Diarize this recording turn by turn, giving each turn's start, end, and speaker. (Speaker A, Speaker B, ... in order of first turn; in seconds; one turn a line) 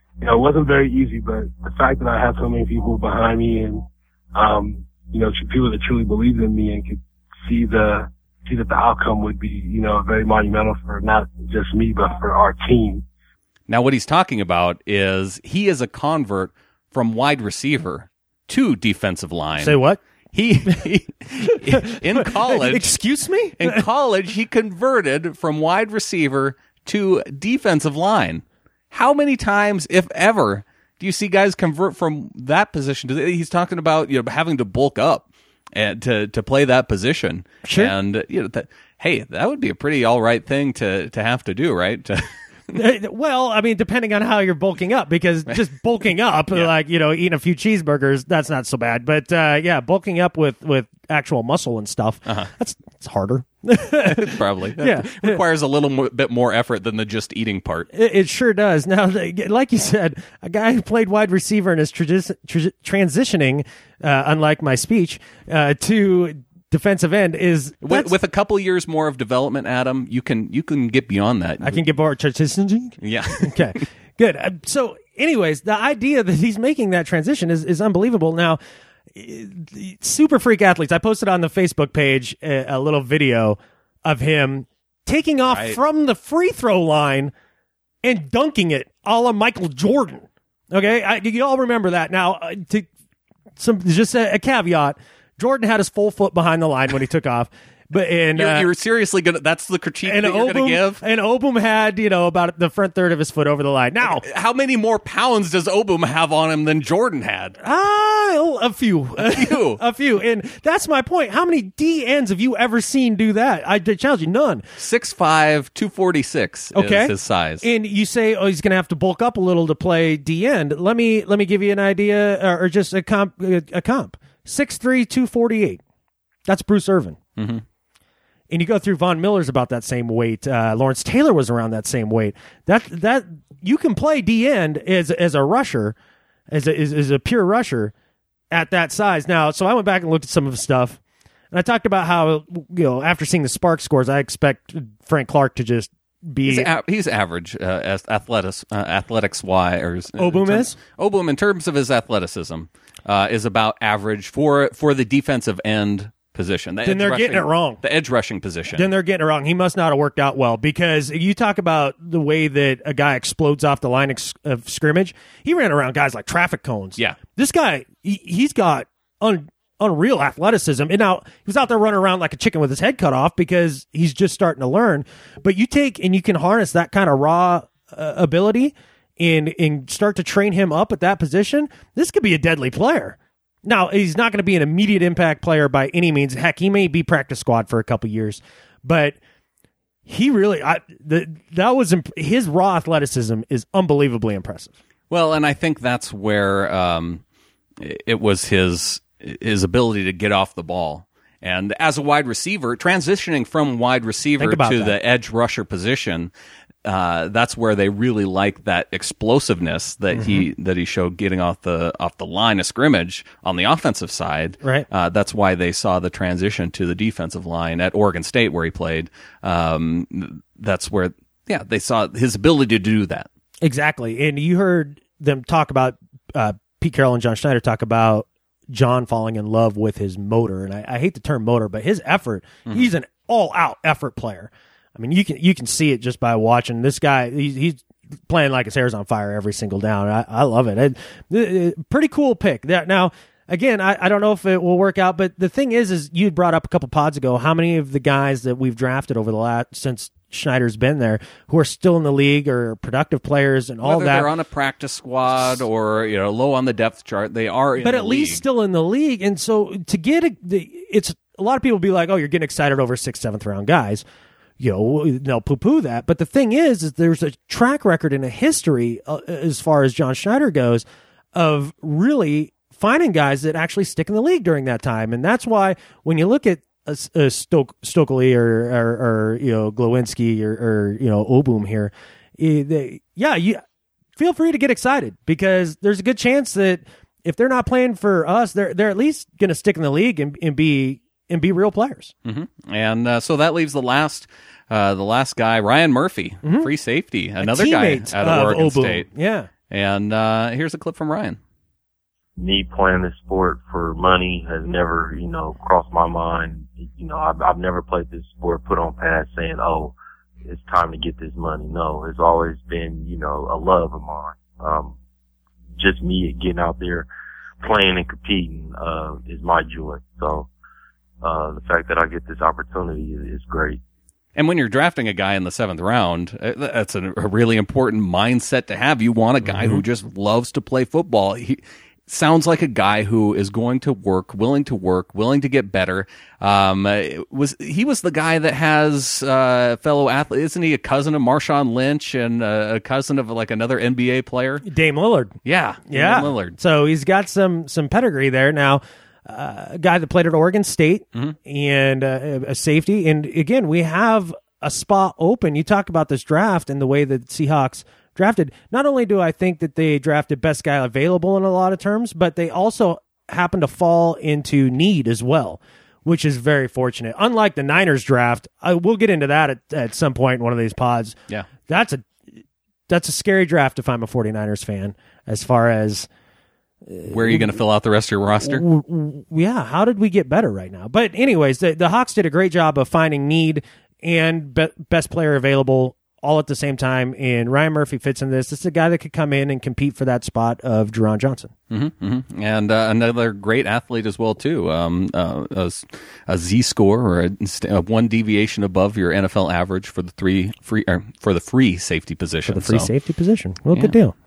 Speaker A: 0.2-13.0
Speaker B: 13.7-19.8
Speaker C: 19.6-20.0
Speaker B: 20.3-22.9
Speaker C: 21.5-23.8
Speaker B: 23.6-42.3
Speaker C: 37.6-37.9
Speaker C: 42.7-55.4
Speaker B: 54.0-57.9
Speaker C: 57.9-68.1
Speaker B: 67.8-71.8
Speaker C: 71.6-78.6
Speaker B: 73.0-73.7
Speaker C: 79.1-87.3
Speaker B: 85.5-85.8
Speaker C: 88.0-92.9
Speaker C: 93.6-98.7
Speaker B: 98.3-101.0
Speaker C: 100.0-104.2
Speaker B: 104.0-107.5
Speaker C: 107.6-114.6
Speaker B: 109.2-109.8
Speaker B: 114.8-117.7
Speaker C: 116.7-125.8
Speaker C: 126.5-127.2
Speaker B: 127.4-127.6
Speaker C: 128.5-135.9
Speaker C: 136.5-137.9
Speaker C: 138.5-141.0
Speaker C: 141.5-146.7
Speaker B: 146.5-158.9
Speaker C: 150.2-150.7
Speaker C: 156.8-157.8
Speaker C: 158.7-189.2
Speaker C: 190.1-194.7
Speaker B: 195.1-197.2
Speaker B: 197.8-206.3
Speaker C: 204.4-204.9
Speaker B: 206.8-223.3
Speaker C: 210.1-210.4
Speaker C: 223.6-254.3
Speaker B: 253.8-258.4
Speaker C: 257.8-264.0
Speaker C: 264.6-283.6
Speaker C: 284.2-292.1
Speaker B: 292.2-299.1
Speaker C: 296.4-296.7
Speaker C: 297.4-299.5
Speaker B: 299.7-301.4
Speaker D: 302.4-314.9
Speaker D: 315.8-317.1
Speaker D: 317.6-320.5
Speaker D: 321.2-323.8
Speaker B: 324.4-344.6
Speaker C: 344.6-345.3
Speaker B: 345.4-346.6
Speaker C: 345.9-371.1
Speaker C: 371.7-372.0
Speaker C: 372.9-376.1
Speaker C: 376.9-377.5
Speaker B: 377.1-378.6
Speaker C: 378.4-391.5
Speaker B: 391.7-402.9
Speaker C: 402.5-404.1